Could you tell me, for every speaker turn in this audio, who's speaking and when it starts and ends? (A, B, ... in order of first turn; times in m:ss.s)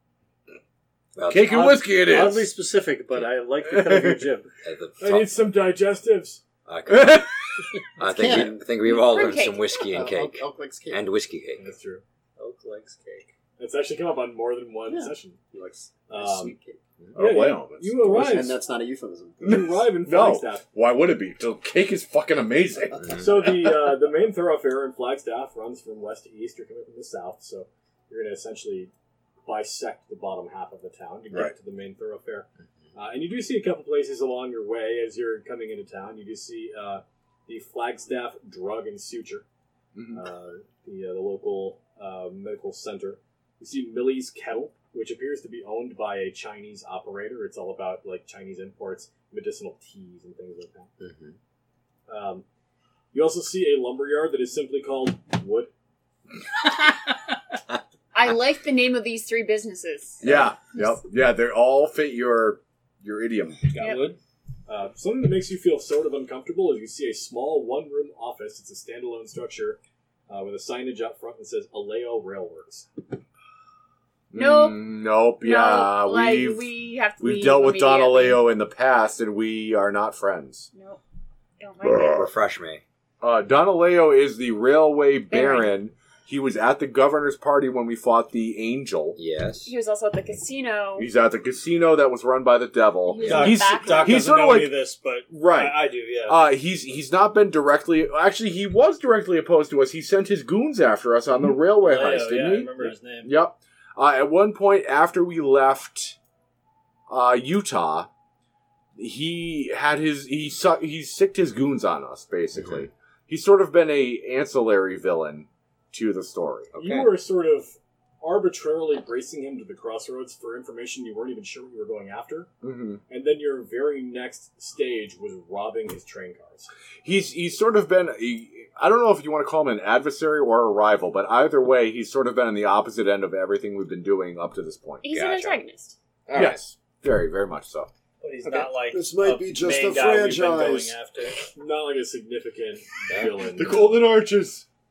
0:01.2-0:01.6 A
0:01.3-0:02.5 B
0:01.5-0:04.5 C
0:03.6-0:04.2 B
0:04.6-0:05.3 A
0:05.0-0:06.4 D
0:06.6-0:07.3 A
0:06.9-0:07.7 B
0:08.0-0:11.6 A
0:08.0-0:08.7 E
0:08.8-0:09.8 F
0:09.9-0:11.0 E
0:11.6-0:12.0 D
0:12.4-0:13.3 C
0:13.6-0:15.4 D
0:14.9-0:16.8 E
0:16.1-0:16.5 D
0:17.1-0:18.4 B
0:17.2-0:18.6 D
0:18.1-0:19.4 E
0:19.4-0:20.6 D
0:19.4-0:23.2 B
0:23.0-0:23.2 A
0:23.2-0:28.9 D
0:29.4-0:39.4 D
0:39.9-0:40.2 B
0:40.1-0:50.9 D
0:51.0-0:51.3 A
0:52.1-0:52.4 D
0:53.1-0:55.7 D
0:58.1-1:01.0 F
1:00.2-1:03.6 B
1:03.7-1:04.2 C
1:03.8-1:04.0 F
1:04.7-1:12.9 D
1:14.3-1:16.6 B
1:14.3-1:14.8 F
1:15.4-1:18.4 F
1:17.2-1:20.7 B
1:20.7-1:21.0 F
1:21.6-1:22.3 F
1:22.0-1:22.8 A
1:23.2-1:29.2 B
1:25.3-1:25.7 F
1:29.2-1:29.7 A
1:29.6-1:31.1 F
1:31.0-1:34.8 B
1:33.1-1:34.4 F
1:33.2-1:33.6 A
1:33.3-1:36.5 C
1:35.3-1:46.2 B
1:41.5-1:43.3 C
1:47.1-1:48.1 B
1:49.0-1:56.7 B
1:56.7-1:57.1 A
1:56.8-2:02.5 D
2:02.6-2:03.0 B
2:03.1-2:06.7 D
2:07.0-2:15.1 B
2:15.0-2:16.0 F
2:15.1-2:15.6 A
2:16.3-2:16.6 A
2:16.3-2:17.9 B
2:18.2-2:21.5 C
2:18.9-2:20.9 E
2:21.5-2:24.0 D
2:23.1-2:23.5 A
2:23.5-2:24.6 B